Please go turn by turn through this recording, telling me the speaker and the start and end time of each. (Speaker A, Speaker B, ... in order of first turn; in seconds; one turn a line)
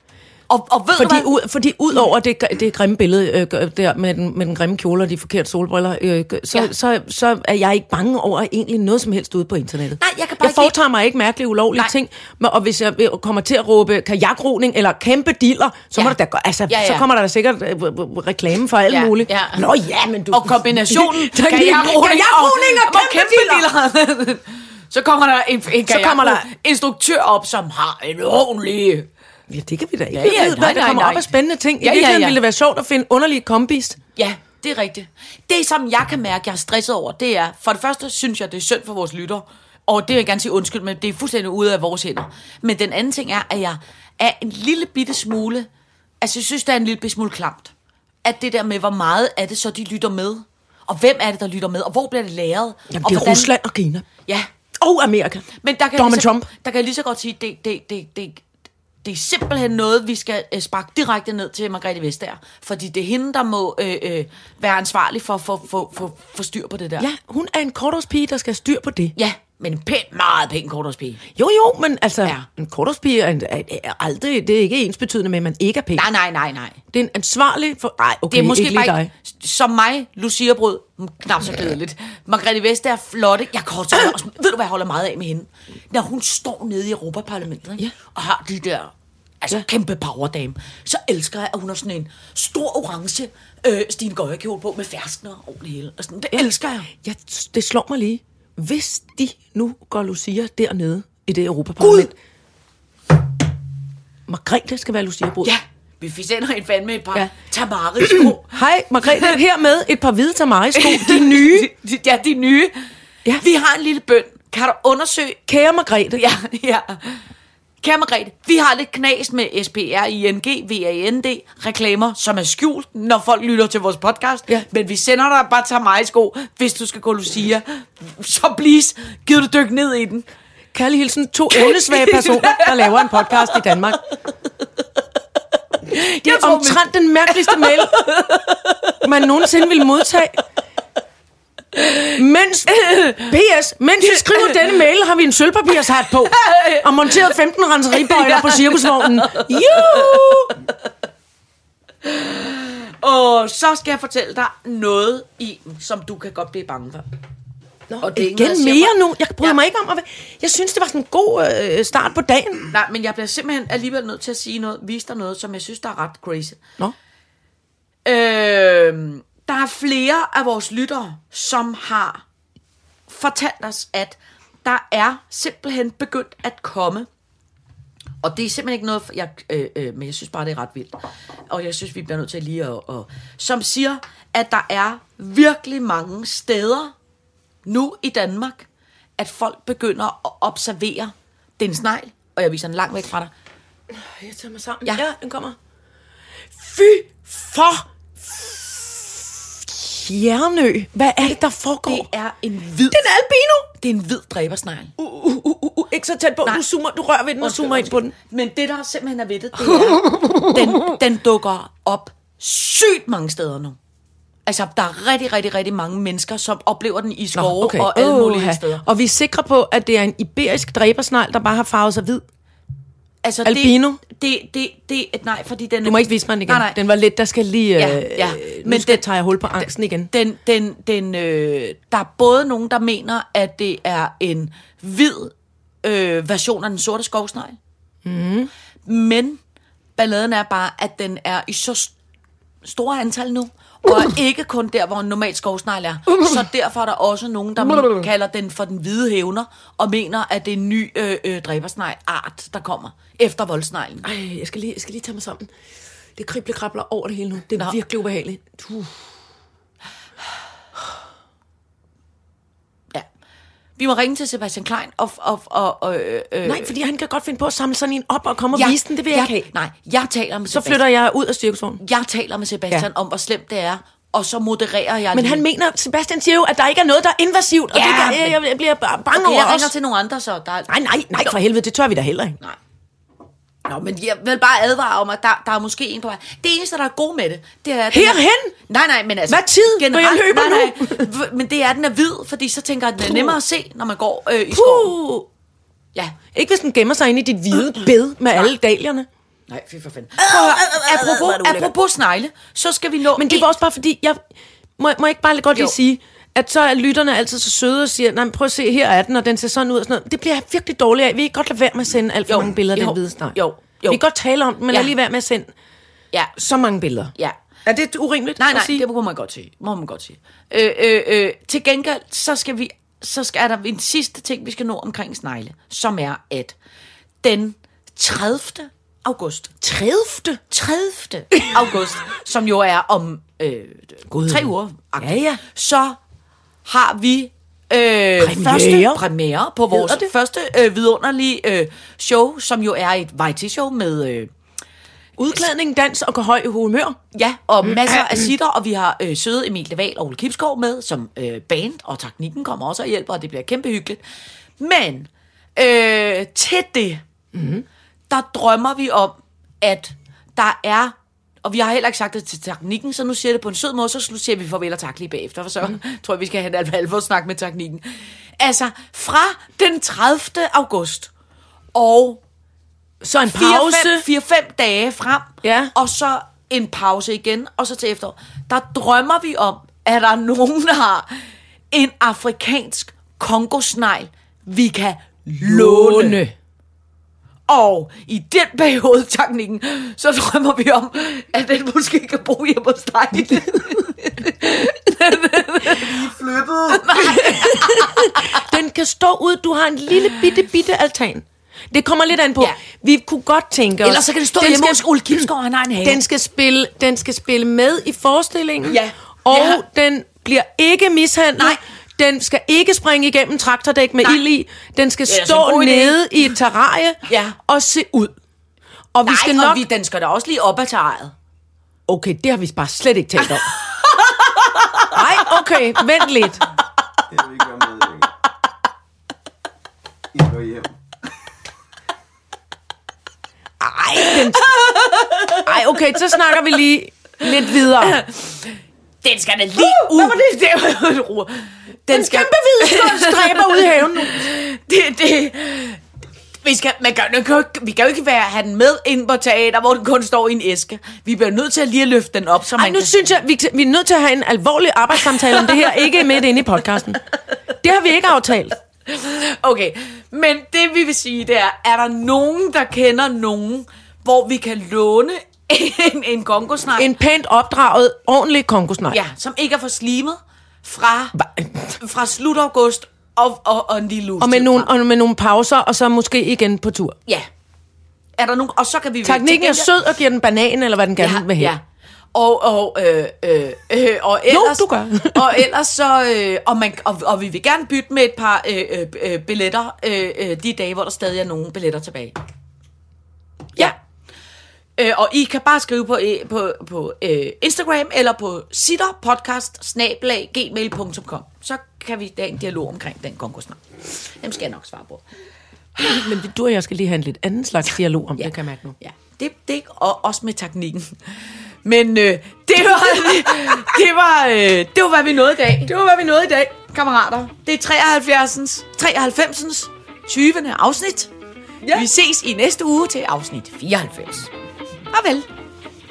Speaker A: 0.5-1.3
Speaker B: 1.0-23.7
Speaker A: 10.0-10.7
Speaker A: 16.7-17.1
Speaker A: 18.9-19.6
Speaker A: 20.3-29.1
Speaker B: 25.9-26.5
Speaker B: 29.5-34.0
Speaker A: 30.1-31.3
Speaker A: 31.8-32.4
Speaker A: 34.1-45.7
Speaker A: 46.2-47.7
Speaker A: 48.2-53.5
Speaker B: 52.9-54.0
Speaker B: 54.8-56.5
Speaker A: 55.6-58.4
Speaker A: 59.0-67.1
Speaker B: 67.0-69.1
Speaker A: 69.2-71.2
Speaker B: 71.3-76.1
Speaker A: 76.0-76.8
Speaker B: 76.9-79.1
Speaker A: 78.3-96.9
Speaker B: 96.3-102.1
Speaker A: 101.8-102.1
Speaker B: 104.3-105.5
Speaker A: 105.4-109.3
Speaker B: 108.0-111.7
Speaker A: 110.8-112.7
Speaker A: 113.4-115.4
Speaker B: 115.5-116.2
Speaker A: 116.1-117.2
Speaker A: 117.8-130.2
Speaker B: 130.7-134.0
Speaker A: 131.5-133.8
Speaker A: 135.9-139.0
Speaker B: 136.2-138.1
Speaker B: 139.0-140.4
Speaker A: 141.8-142.1
Speaker B: 142.1-150.6
Speaker A: 142.8-143.2
Speaker A: 144.3-144.5
Speaker A: 146.2-147.3
Speaker A: 147.9-150.7
Speaker A: 152.0-157.1
Speaker B: 157.9-162.7
Speaker A: 158.0-159.6
Speaker A: 162.7-166.6
Speaker A: 168.0-172.2
Speaker A: 173.1-177.1
Speaker A: 178.2-180.9
Speaker A: 181.5-186.9
Speaker A: 187.7-188.7
Speaker A: 189.2-193.3
Speaker B: 193.9-195.6
Speaker B: 196.5-202.1
Speaker A: 201.8-203.0
Speaker B: 202.9-203.7
Speaker A: 203.7-204.9
Speaker B: 205.0-208.1
Speaker A: 207.4-213.8
Speaker B: 209.6-210.9
Speaker A: 214.4-218.8
Speaker B: 217.3-222.2
Speaker A: 223.2-226.8
Speaker B: 223.4-224.0
Speaker B: 225.8-230.1
Speaker A: 227.8-229.0
Speaker A: 229.6-237.6
Speaker B: 238.0-238.5
Speaker A: 238.8-239.4
Speaker A: 239.9-241.9
Speaker A: 242.6-254.1
Speaker B: 247.7-248.1
Speaker B: 254.0-255.5
Speaker B: 256.1-259.0
Speaker A: 263.8-266.7
Speaker B: 266.4-269.5
Speaker A: 268.5-270.8
Speaker B: 270.5-271.8
Speaker A: 271.8-275.4
Speaker B: 275.1-279.7
Speaker A: 277.7-278.3
Speaker A: 279.1-281.3
Speaker B: 280.7-282.4
Speaker A: 283.6-294.9
Speaker B: 287.9-288.5
Speaker B: 289.3-291.1
Speaker B: 293.0-293.4
Speaker B: 294.5-295.3
Speaker B: 296.3-299.1
Speaker A: 299.5-303.5
Speaker B: 300.2-301.7
Speaker B: 303.1-304.2
Speaker B: 304.8-313.4
Speaker A: 312.3-314.0
Speaker B: 313.9-315.5
Speaker B: 316.4-317.1
Speaker B: 317.6-318.8
Speaker A: 318.4-326.6
Speaker A: 327.2-329.5
Speaker B: 329.6-330.4
Speaker A: 330.5-336.0
Speaker B: 334.1-334.5
Speaker B: 335.0-335.4
Speaker A: 336.6-344.3
Speaker B: 338.2-339.0
Speaker B: 339.7-340.1
Speaker B: 345.2-347.0
Speaker A: 347.1-354.0
Speaker B: 347.6-348.3
Speaker A: 354.6-357.0
Speaker B: 357.3-357.6
Speaker A: 358.1-371.1
Speaker A: 371.7-372.2
Speaker B: 373.0-374.1
Speaker A: 373.3-381.2
Speaker B: 375.4-375.7
Speaker A: 381.7-386.2
Speaker B: 385.4-386.3
Speaker A: 387.5-398.5
Speaker B: 393.3-393.8
Speaker C: 395.7-396.7
Speaker B: 396.8-405.3
Speaker A: 403.8-406.0
Speaker B: 405.8-418.1
Speaker A: 408.6-409.6
Speaker A: 415.1-416.0
Speaker A: 417.1-417.4
Speaker B: 418.9-419.6
Speaker A: 419.1-421.1
Speaker B: 421.9-423.4
Speaker A: 423.2-425.7
Speaker B: 424.9-426.4
Speaker C: 427.1-428.1
Speaker C: 430.1-430.7
Speaker B: 433.6-434.5
Speaker A: 434.3-435.5
Speaker B: 435.4-438.0
Speaker A: 437.5-438.5
Speaker A: 439.0-445.8
Speaker B: 439.6-440.2
Speaker B: 441.9-444.2
Speaker A: 446.4-452.9
Speaker B: 452.6-457.0
Speaker A: 455.1-456.1
Speaker B: 457.6-458.6
Speaker A: 458.9-466.9
Speaker B: 466.8-469.0
Speaker A: 468.9-471.2
Speaker B: 471.1-471.8
Speaker A: 471.8-474.7
Speaker B: 474.2-477.0
Speaker A: 478.2-479.7
Speaker B: 479.0-481.5
Speaker A: 481.0-481.6
Speaker A: 482.1-492.2
Speaker B: 484.3-485.5
Speaker A: 494.8-505.0
Speaker B: 505.8-508.8
Speaker A: 508.2-515.7
Speaker B: 512.8-513.7
Speaker B: 515.6-516.5
Speaker A: 516.7-521.1
Speaker B: 521.6-521.9
Speaker A: 521.7-524.2
Speaker B: 523.7-524.3
Speaker A: 524.9-525.3